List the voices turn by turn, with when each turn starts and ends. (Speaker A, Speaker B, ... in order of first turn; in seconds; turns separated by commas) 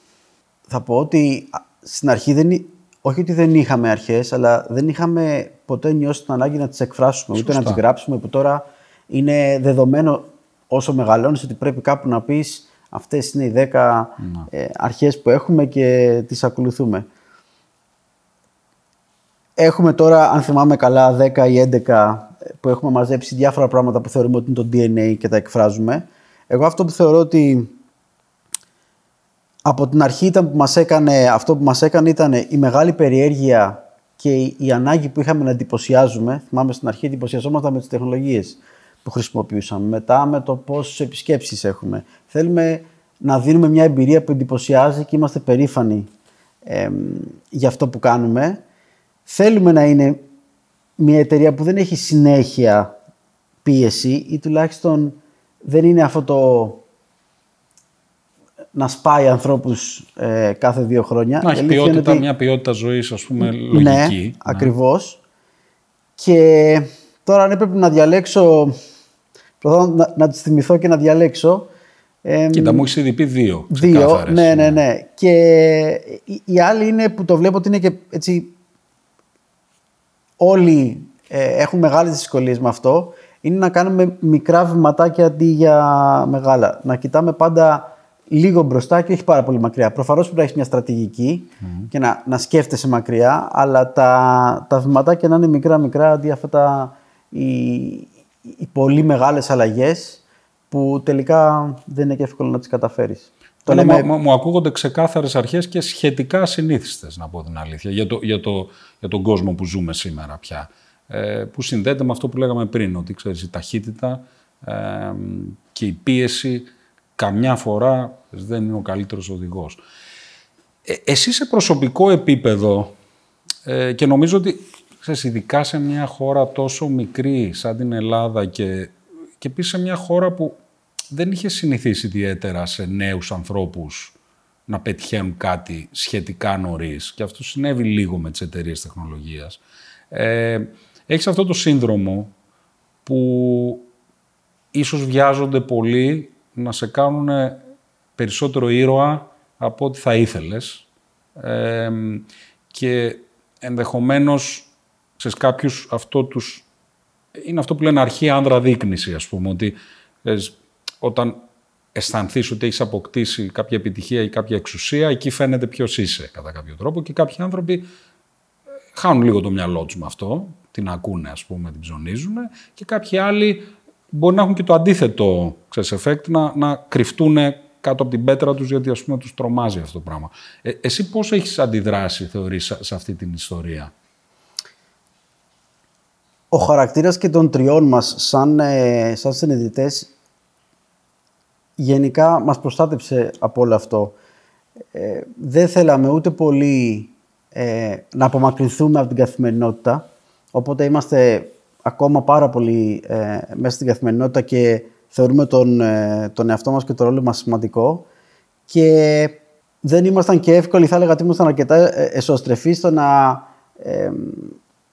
Speaker A: 0.7-17.1, Speaker B: 7.3-7.8, Speaker B: 14.2-14.5, Speaker A: 19.6-27.7, Speaker A: 29.6-46.1, Speaker A: 46.6-48.6, Speaker A: 49.3-50.2, Speaker A: 51.0-52.9, Speaker A: 53.6-56.8, Speaker A: 58.8-62.2, Speaker B: 61.4-64.7, Speaker A: 63.4-65.2, Speaker A: 66.2-68.8, Speaker A: 69.6-71.7, Speaker A: 72.2-72.9, Speaker B: 72.5-74.8, Speaker A: 73.7-78.5, Speaker A: 80.4-104.1, Speaker B: 91.6-91.9, Speaker B: 103.7-119.8, Speaker B: 120.9-123.0, Speaker B: 123.7-130.6, Speaker B: 131.1-134.2, Speaker B: 134.7-139.6, Speaker B: 140.1-142.3, Speaker B: 143.1-143.9, Speaker B: 144.7-147.6, Speaker B: 148.2-150.9, Speaker B: 151.4-156.7, Speaker B: 157.4-161.4, Speaker B: 161.9-167.9, Speaker B: 168.9-183.9, Speaker A: 186.5-190.1, Speaker A: 191.8-194.2, Speaker A: 194.9-208.1, Speaker A: 208.7-214.6